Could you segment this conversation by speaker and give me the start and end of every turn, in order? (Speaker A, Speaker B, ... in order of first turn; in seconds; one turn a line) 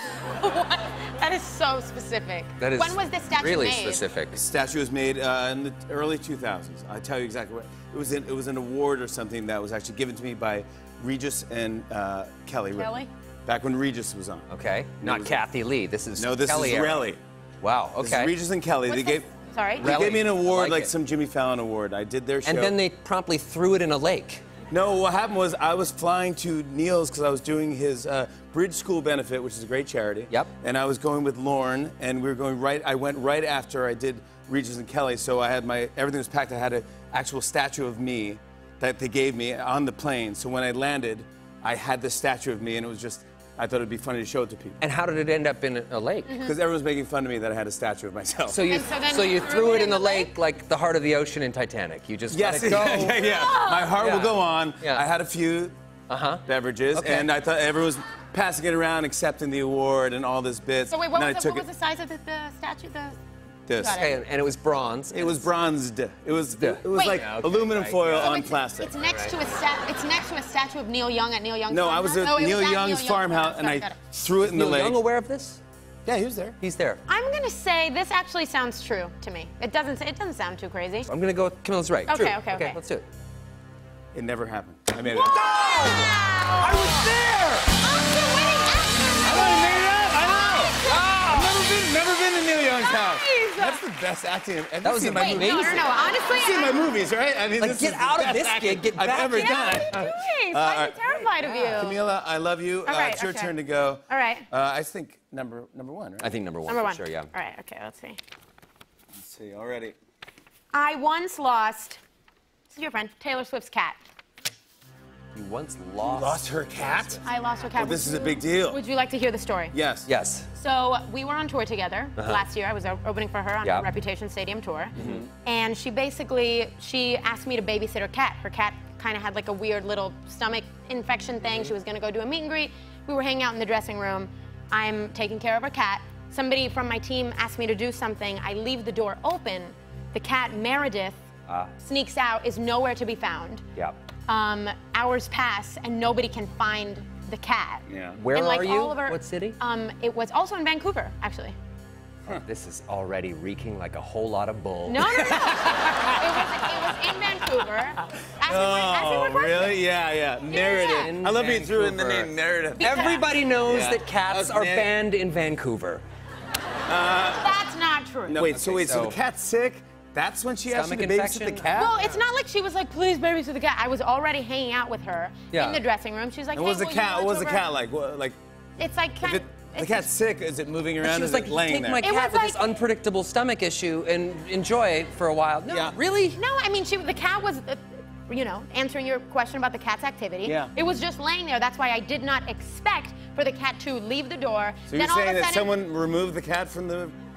Speaker A: 0.3-4.0
Speaker B: 2.6-4.4
Speaker C: 4.3-14.5
Speaker A: 12.8-13.1
Speaker B: 14.5-18.3
Speaker C: 15.0-15.4
Speaker C: 16.1-17.2
Speaker C: 18.0-22.8
Speaker A: 18.9-19.9
Speaker B: 19.8-20.9
Speaker B: 22.4-24.4
Speaker C: 24.7-44.8
Speaker B: 44.8-46.4
Speaker A: 46.2-46.5
Speaker C: 46.4-48.7
Speaker B: 48.5-55.0
Speaker A: 48.7-50.3
Speaker C: 52.3-55.8
Speaker A: 53.1-54.0
Speaker B: 56.1-57.3
Speaker C: 56.5-61.7
Speaker A: 60.9-63.2
Speaker C: 63.7-64.0
Speaker A: 63.7-64.2
Speaker B: 64.0-65.5
Speaker C: 65.1-68.9
Speaker B: 66.5-69.3
Speaker A: 66.9-67.3
Speaker A: 68.1-74.1
Speaker C: 71.7-75.0
Speaker B: 74.4-75.6
Speaker C: 76.0-76.6
Speaker B: 76.6-77.0
Speaker A: 77.1-81.1
Speaker B: 81.1-83.0
Speaker A: 82.1-82.8
Speaker C: 84.1-85.9
Speaker B: 85.0-87.7
Speaker A: 85.2-87.1
Speaker C: 86.7-87.4
Speaker A: 87.7-91.1
Speaker C: 89.2-101.0
Speaker B: 89.3-89.9
Speaker B: 90.8-91.6
Speaker A: 92.7-93.8
Speaker B: 94.8-95.9
Speaker A: 95.1-96.9
Speaker B: 97.6-100.0
Speaker A: 99.3-101.9
Speaker B: 101.1-102.0
Speaker C: 101.7-106.3
Speaker A: 102.8-103.5
Speaker A: 104.1-104.5
Speaker B: 106.2-107.3
Speaker A: 106.7-108.2
Speaker C: 109.1-110.0
Speaker A: 110.7-112.0
Speaker A: 112.7-114.0
Speaker B: 115.3-117.2
Speaker C: 116.0-117.2
Speaker A: 117.2-119.7
Speaker C: 117.7-118.8
Speaker C: 119.7-120.1
Speaker B: 120.0-120.5
Speaker A: 120.5-141.2
Speaker B: 122.2-122.4
Speaker B: 125.0-125.2
Speaker C: 125.0-125.3
Speaker A: 141.8-143.6
Speaker A: 144.3-151.6
Speaker C: 147.9-148.2
Speaker B: 148.2-149.6
Speaker B: 152.3-155.3
Speaker A: 154.8-159.8
Speaker C: 155.0-156.5
Speaker C: 157.3-157.6
Speaker C: 158.4-164.9
Speaker A: 160.4-161.2
Speaker B: 160.5-166.0
Speaker A: 162.8-163.3
Speaker C: 166.9-167.6
Speaker A: 167.3-168.4
Speaker C: 168.3-172.0
Speaker B: 168.3-169.2
Speaker B: 170.7-172.2
Speaker A: 171.7-177.7
Speaker B: 175.5-175.8
Speaker C: 176.5-178.4
Speaker A: 178.8-180.1
Speaker C: 179.2-182.1
Speaker B: 181.0-186.4
Speaker A: 182.0-182.6
Speaker C: 185.7-185.9
Speaker A: 186.3-195.7
Speaker C: 190.4-190.7
Speaker C: 194.8-197.1